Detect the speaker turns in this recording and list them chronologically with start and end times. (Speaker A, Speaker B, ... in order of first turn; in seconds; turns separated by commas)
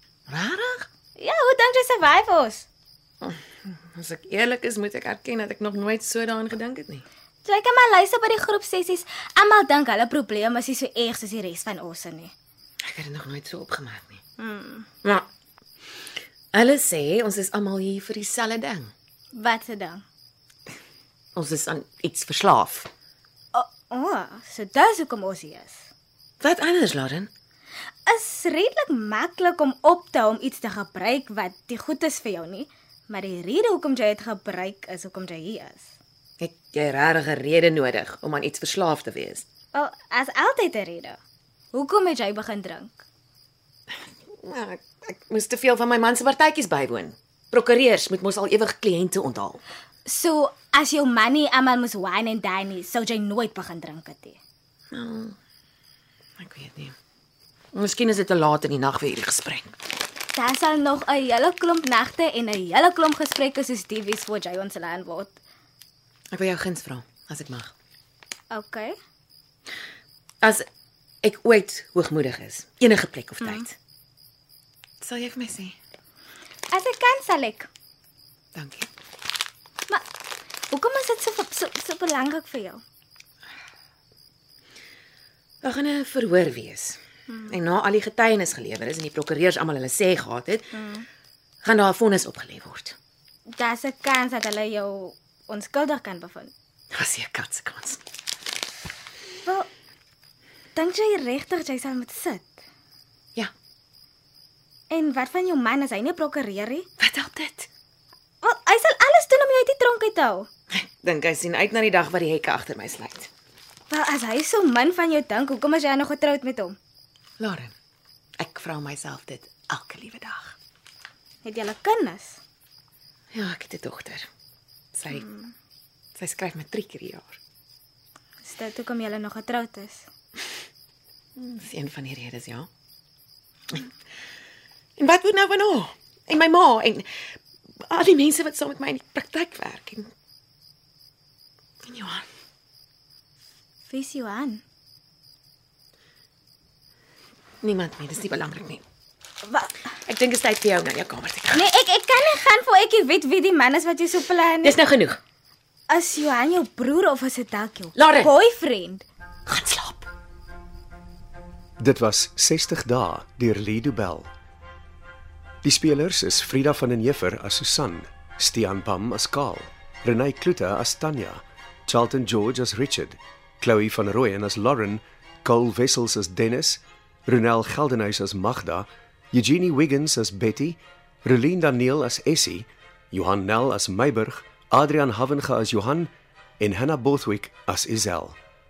Speaker A: 0.3-0.9, Speaker B: 1.2-2.7, Speaker A: 3.2-7.0, Speaker B: 7.4-12.3, Speaker A: 12.8-14.2, Speaker B: 14.4-14.9, Speaker A: 16.5-18.9, Speaker B: 19.3-20.0, Speaker A: 21.4-22.9, Speaker B: 23.5-25.9, Speaker A: 26.4-27.3, Speaker B: 28.1-35.9, Speaker A: 36.4-39.5, Speaker B: 39.7-41.2, Speaker B: 41.7-43.0, Speaker A: 44.3-49.6, Speaker B: 50.1-54.4, Speaker A: 54.9-55.4, Speaker A: 56.4-57.0, Speaker A: 57.7-59.8, Speaker B: 60.3-65.4, Speaker A: 66.3-67.7, Speaker B: 68.5-69.0, Speaker A: 71.2-73.7, Speaker A: 75.0-75.8, Speaker B: 76.7-77.7, Speaker A: 78.5-78.9, Speaker B: 80.7-82.8, Speaker A: 85.6-90.7, Speaker B: 87.3-87.6, Speaker B: 90.7-91.1, Speaker A: 91.6-93.0, Speaker B: 93.5-96.5, Speaker A: 96.9-98.0, Speaker B: 99.4-99.7, Speaker B: 100.8-102.5, Speaker B: 104.9-106.9, Speaker A: 107.0-107.7, Speaker B: 108.4-110.5, Speaker A: 110.7-113.3, Speaker B: 113.9-116.8, Speaker A: 117.4-117.7, Speaker A: 118.4-120.5, Speaker B: 121.4-122.4, Speaker A: 123.3-124.3, Speaker A: 124.9-125.3, Speaker B: 125.1-125.5, Speaker A: 126.2-127.4, Speaker B: 128.4-130.1, Speaker A: 131.4-132.7, Speaker A: 135.0-137.1, Speaker A: 137.9-140.1, Speaker A: 141.8-142.2, Speaker B: 143.9-144.6, Speaker A: 147.6-148.8, Speaker B: 149.4-149.7, Speaker A: 150.1-151.6, Speaker B: 151.5-154.8, Speaker A: 154.6-155.2, Speaker B: 155.9-159.1, Speaker A: 158.0-158.3, Speaker A: 159.5-160.1, Speaker C: 161.8-164.3, Speaker C: 165.6-188.4